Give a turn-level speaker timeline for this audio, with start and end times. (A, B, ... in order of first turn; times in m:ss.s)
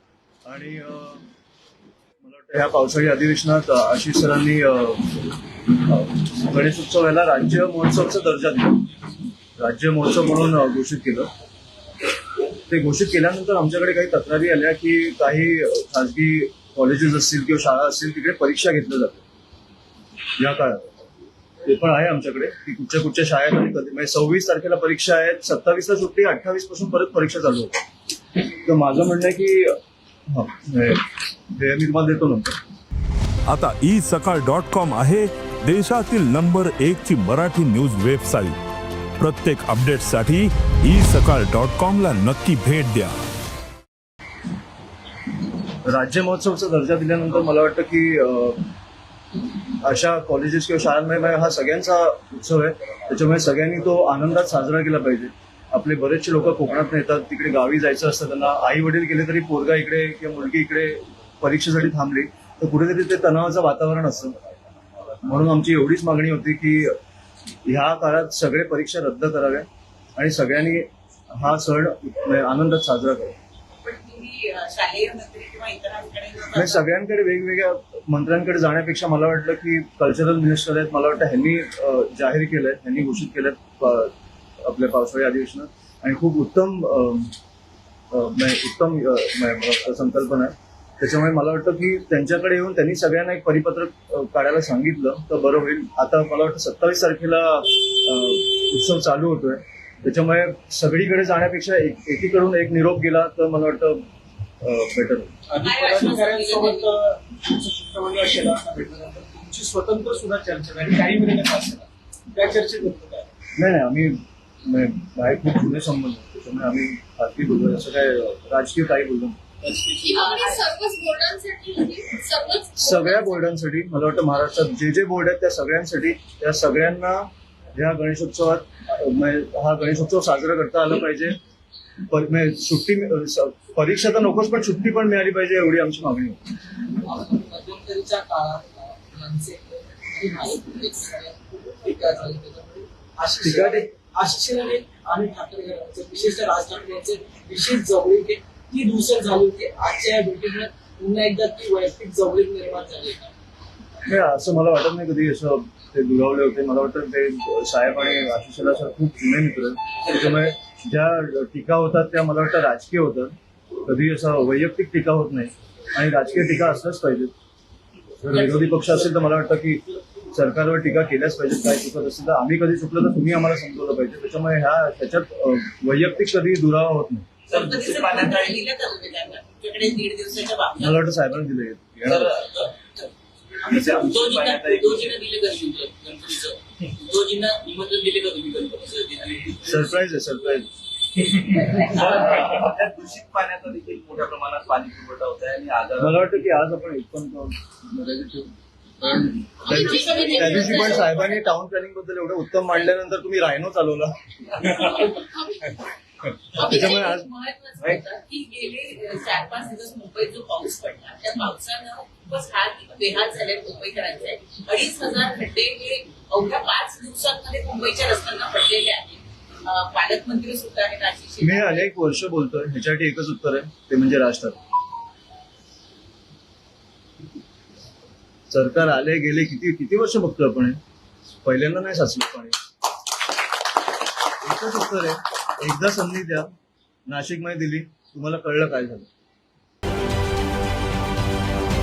0:00.5-0:01.2 A
0:02.2-0:05.1 A
0:05.7-0:08.9 A
0:09.6-0:11.3 A
0:12.5-0:19.2 A
0:20.4-0:20.9 A
0:21.6-0:27.8 A
0:28.6-0:29.8 A
0:30.3-0:32.6 A
0:33.5-0:38.6 B
0:39.2-0:43.2 B
0:45.9-0:48.6 A
0:49.8-1:04.4 A
1:05.2-1:06.9 A
1:07.7-1:13.4 A
1:13.8-1:16.8 C
1:16.6-1:24.1 A
1:24.6-1:27.3 A
1:28.1-1:44.0 A
1:44.6-1:45.3 A
1:45.5-1:53.3 D
1:45.6-1:46.9 C
1:53.6-1:59.4 A
1:59.6-2:00.0 D
2:00.0-2:03.4 E
2:02.8-2:11.4 A
2:12.1-2:16.4 A
2:17.0-2:33.3 F
2:23.4-2:23.8 A
2:34.1-2:47.3 A
2:48.2-2:57.3 A
2:48.4-2:48.7 C
2:57.5-2:58.7 G
2:57.5-3:01.0 C
3:00.8-3:02.4 A
3:02.0-3:02.8 G
3:03.6-3:05.6 G
3:03.7-3:06.3 F
3:04.0-3:04.5 C
3:07.1-3:09.9 G
3:07.9-3:09.1 F
3:09.6-3:10.7 A
3:11.8-3:16.3 G
3:16.0-3:24.1 A
3:19.7-3:21.1 E
3:19.8-3:21.0 C
3:24.6-3:25.1 G
3:26.6-3:41.9 C
3:26.6-3:27.3 A
3:41.4-3:44.6 A
3:48.5-3:50.8 A
3:51.4-3:52.6 A
3:54.4-3:56.5 A
3:57.1-3:59.1 A